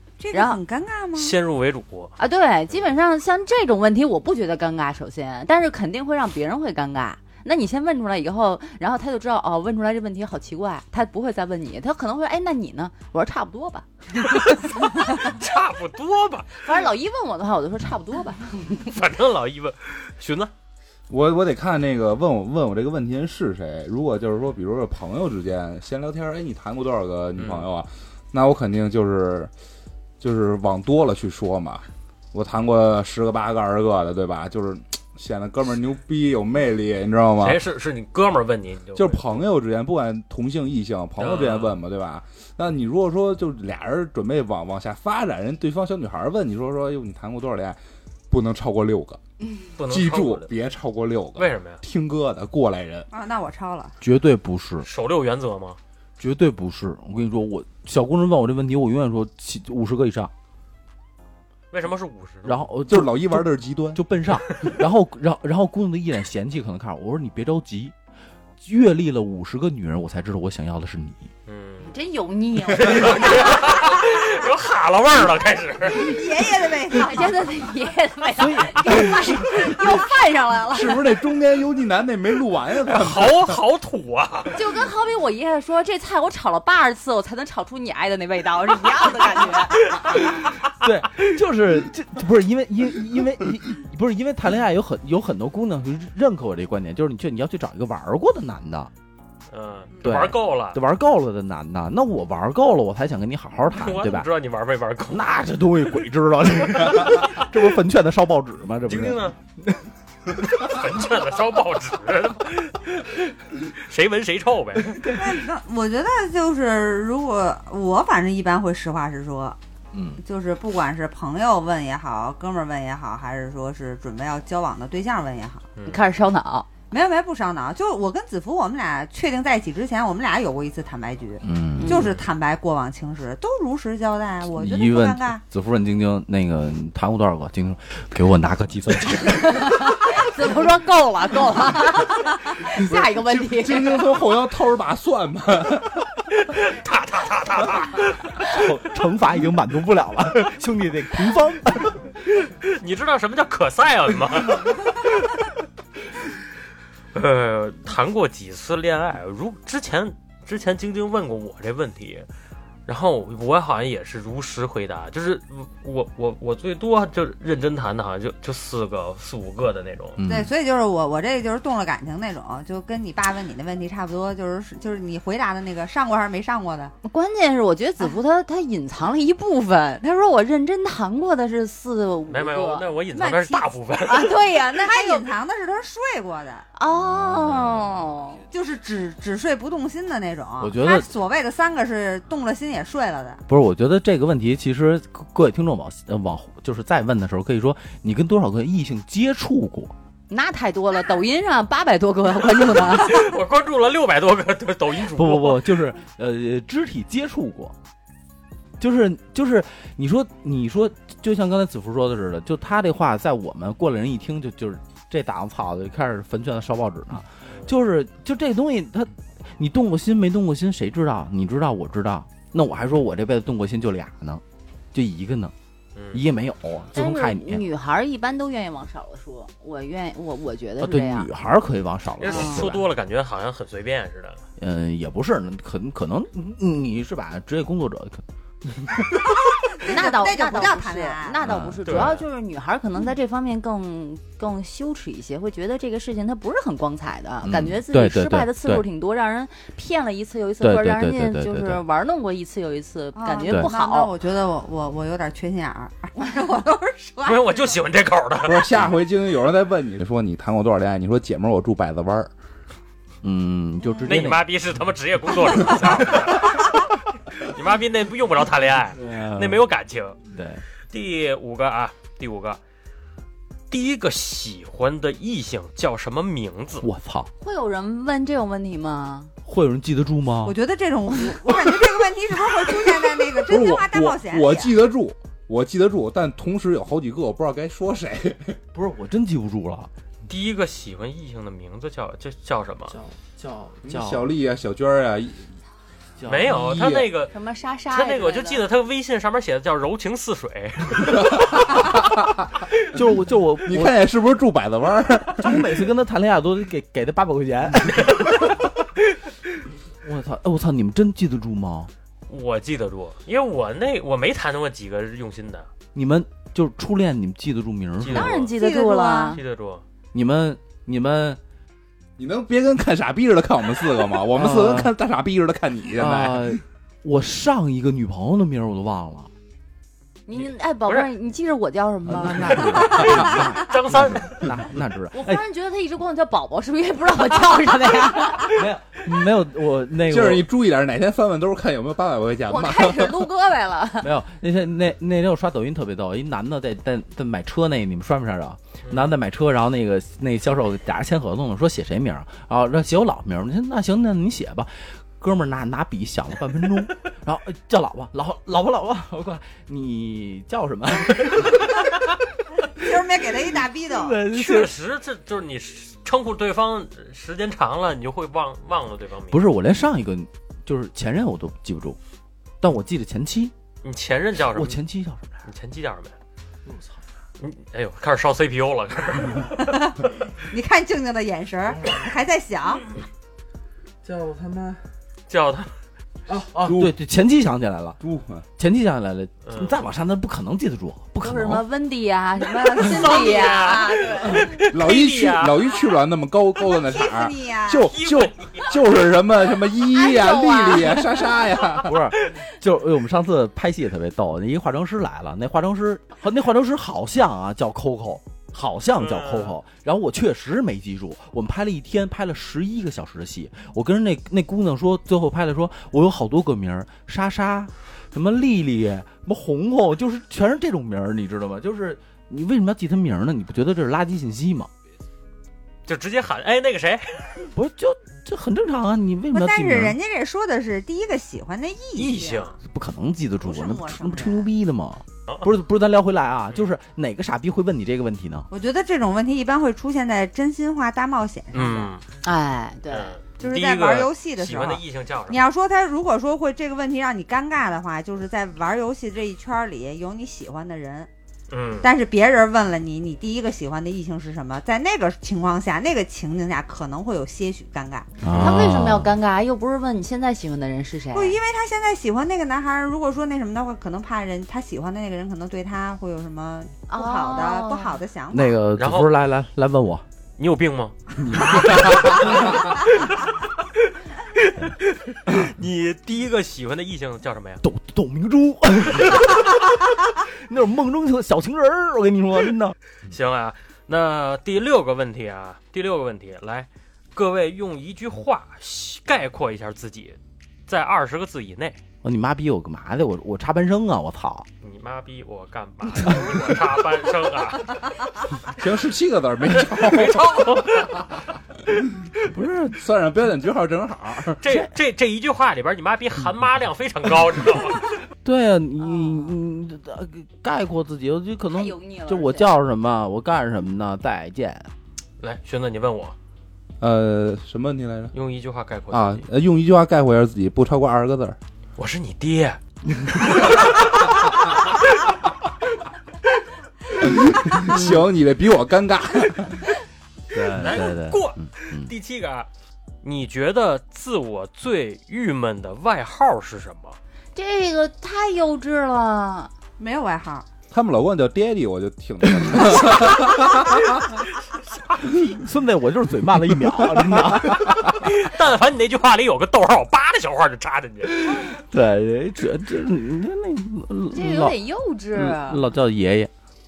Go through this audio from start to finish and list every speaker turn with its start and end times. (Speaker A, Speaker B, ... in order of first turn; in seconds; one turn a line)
Speaker A: 0.2-1.4
Speaker B: 0.3-0.6
Speaker C: 1.2-2.2
Speaker B: 2.2-15.3
Speaker C: 14.5-16.7
Speaker B: 16.6-18.9
Speaker C: 18.9-20.5
Speaker D: 21.1-29.5
Speaker C: 27.4-27.6
Speaker D: 30.2-37.6
Speaker C: 37.4-39.4
Speaker D: 39.0-47.8
Speaker C: 41.2-41.8
Speaker D: 48.3-49.2
Speaker C: 49.8-50.5
Speaker D: 49.8-53.1
Speaker C: 51.4-51.8
Speaker A: 53.1-54.0
Speaker E: 54.0-54.9
Speaker C: 54.8-55.8
Speaker E: 56.2-60.3
Speaker C: 61.7-62.7
Speaker E: 62.5-68.0
Speaker D: 62.9-64.0
Speaker E: 68.6-71.3
Speaker C: 71.5-71.9
Speaker B: 71.9-73.7
Speaker C: 72.7-76.1
Speaker A: 75.9-77.4
Speaker B: 76.9-81.1
Speaker E: 78.4-79.9
Speaker D: 80.7-83.6
Speaker C: 82.8-84.6
Speaker B: 84.5-90.0
Speaker E: 90.1-98.9
Speaker C: 99.5-100.8
Speaker E: 100.0-104.3
Speaker C: 103.7-105.3
Speaker E: 105.1-109.8
Speaker C: 108.9-109.4
Speaker C: 110.4-115.1
Speaker A: 115.1-119.6
Speaker E: 119.9-120.2
Speaker A: 120.2-125.7
Speaker C: 125.8-126.0
Speaker B: 125.9-126.7
Speaker A: 126.9-135.4
Speaker E: 131.4-132.1
Speaker B: 131.8-132.1
Speaker C: 131.9-132.2
Speaker E: 134.6-139.8
Speaker B: 139.4-144.0
Speaker D: 142.6-146.1
Speaker C: 146.4-148.5
Speaker E: 148.4-152.2
Speaker C: 152.6-154.9
Speaker C: 157.1-162.3
Speaker C: 162.9-170.2
Speaker E: 170.2-170.5
Speaker A: 170.2-176.9
Speaker B: 177.0-182.9
Speaker C: 182.3-184.4
Speaker A: 183.1-183.7
Speaker B: 184.0-185.3
Speaker A: 184.7-186.7
Speaker B: 186.8-188.4
Speaker E: 187.0-187.9
Speaker A: 188.5-193.4
Speaker E: 190.6-191.1
Speaker E: 193.5-199.9
Speaker B: 200.3-203.3
Speaker C: 202.7-205.7
Speaker E: 205.1-207.8
Speaker E: 208.8-225.5
Speaker C: 226.0-226.2
Speaker E: 226.1-227.6
Speaker B: 226.9-231.3
Speaker E: 230.8-232.9
Speaker C: 232.2-234.4
Speaker B: 232.3-232.7
Speaker E: 234.6-238.2
Speaker E: 238.8-239.1
Speaker A: 239.7-241.4
Speaker B: 239.8-254.1
Speaker E: 241.4-242.2
Speaker C: 241.8-242.2
Speaker E: 247.4-248.8
Speaker E: 250.6-251.8
Speaker A: 253.2-257.8
Speaker C: 257.2-258.8
Speaker D: 258.4-262.3
Speaker E: 263.2-264.5
Speaker C: 264.0-266.7
Speaker C: 267.3-270.2
Speaker E: 269.0-269.6
Speaker E: 270.3-270.6
Speaker C: 270.9-272.6
Speaker C: 273.7-276.9
Speaker E: 276.8-277.3
Speaker B: 277.4-279.3
Speaker E: 279.5-280.6
Speaker A: 280.4-284.8
Speaker D: 283.4-288.6
Speaker E: 288.7-289.9
Speaker C: 290.3-293.0
Speaker E: 292.9-294.3
Speaker D: 293.8-295.5
Speaker E: 296.2-296.8
Speaker C: 296.3-297.3
Speaker D: 296.5-297.1
Speaker B: 297.3-298.6
Speaker C: 297.9-301.4
Speaker D: 301.2-302.5
Speaker E: 302.9-304.0
Speaker D: 303.6-305.6
Speaker E: 305.4-309.3
Speaker E: 310.0-311.9
Speaker C: 312.3-315.7
Speaker E: 315.9-318.4
Speaker C: 318.0-318.6
Speaker B: 318.1-319.4
Speaker A: 318.4-319.4
Speaker C: 319.3-319.8
Speaker E: 320.1-321.4
Speaker D: 322.2-326.6
Speaker E: 324.3-324.9
Speaker E: 325.9-329.3
Speaker B: 330.3-333.1
Speaker C: 330.3-331.1
Speaker E: 332.1-335.4
Speaker C: 332.7-334.5
Speaker B: 335.1-338.6
Speaker E: 338.4-340.5
Speaker D: 340.1-343.3
Speaker B: 342.5-344.1
Speaker E: 344.0-361.9
Speaker C: 348.9-349.1
Speaker A: 362.7-364.2
Speaker E: 363.9-364.8
Speaker C: 364.3-369.4
Speaker E: 369.3-372.0
Speaker E: 372.6-373.5
Speaker C: 373.8-374.8
Speaker E: 374.5-375.4
Speaker C: 375.4-376.1
Speaker C: 377.4-379.8
Speaker A: 380.5-382.9
Speaker C: 385.3-385.7
Speaker E: 386.4-388.0
Speaker D: 386.5-386.9
Speaker D: 388.0-388.4
Speaker E: 388.6-391.6
Speaker C: 389.4-389.8
Speaker B: 391.2-394.5
Speaker C: 392.5-395.7
Speaker D: 394.6-401.9
Speaker A: 396.6-397.9
Speaker C: 397.9-398.8
Speaker B: 399.9-401.4
Speaker E: 401.8-424.7
Speaker C: 409.0-409.5
Speaker C: 425.9-427.5
Speaker E: 427.6-430.0
Speaker A: 429.3-432.5
Speaker C: 431.9-432.6
Speaker E: 432.6-438.5
Speaker A: 433.4-434.5
Speaker A: 438.5-441.9
Speaker C: 441.5-442.0
Speaker B: 442.2-443.2
Speaker C: 442.9-445.4
Speaker A: 443.4-451.1
Speaker C: 451.5-451.9
Speaker A: 451.8-458.1
Speaker E: 458.2-459.1
Speaker B: 458.3-461.4
Speaker A: 461.1-468.6
Speaker B: 466.9-468.0
Speaker E: 468.3-470.1
Speaker C: 468.8-469.1
Speaker C: 470.4-473.0
Speaker C: 474.4-477.6
Speaker E: 477.6-482.8
Speaker C: 483.1-491.8
Speaker E: 492.0-494.5
Speaker C: 494.6-497.9
Speaker E: 496.0-496.3
Speaker D: 498.5-501.2
Speaker C: 499.6-501.1
Speaker E: 502.3-502.8
Speaker D: 502.7-504.4
Speaker C: 504.4-508.0
Speaker E: 508.2-514.7
Speaker B: 511.5-512.5
Speaker C: 515.2-516.1
Speaker D: 516.8-518.1
Speaker C: 518.1-519.3
Speaker D: 518.9-521.4
Speaker C: 521.8-522.6
Speaker C: 523.1-524.1
Speaker D: 526.9-529.7
Speaker E: 530.3-531.9
Speaker C: 530.5-532.5
Speaker C: 533.0-537.0
Speaker B: 537.4-539.5
Speaker A: 539.8-540.5
Speaker D: 540.7-544.2
Speaker E: 542.4-542.9
Speaker E: 545.2-547.9
Speaker C: 547.9-551.3
Speaker E: 551.2-554.6
Speaker B: 554.1-555.6
Speaker E: 555.1-556.3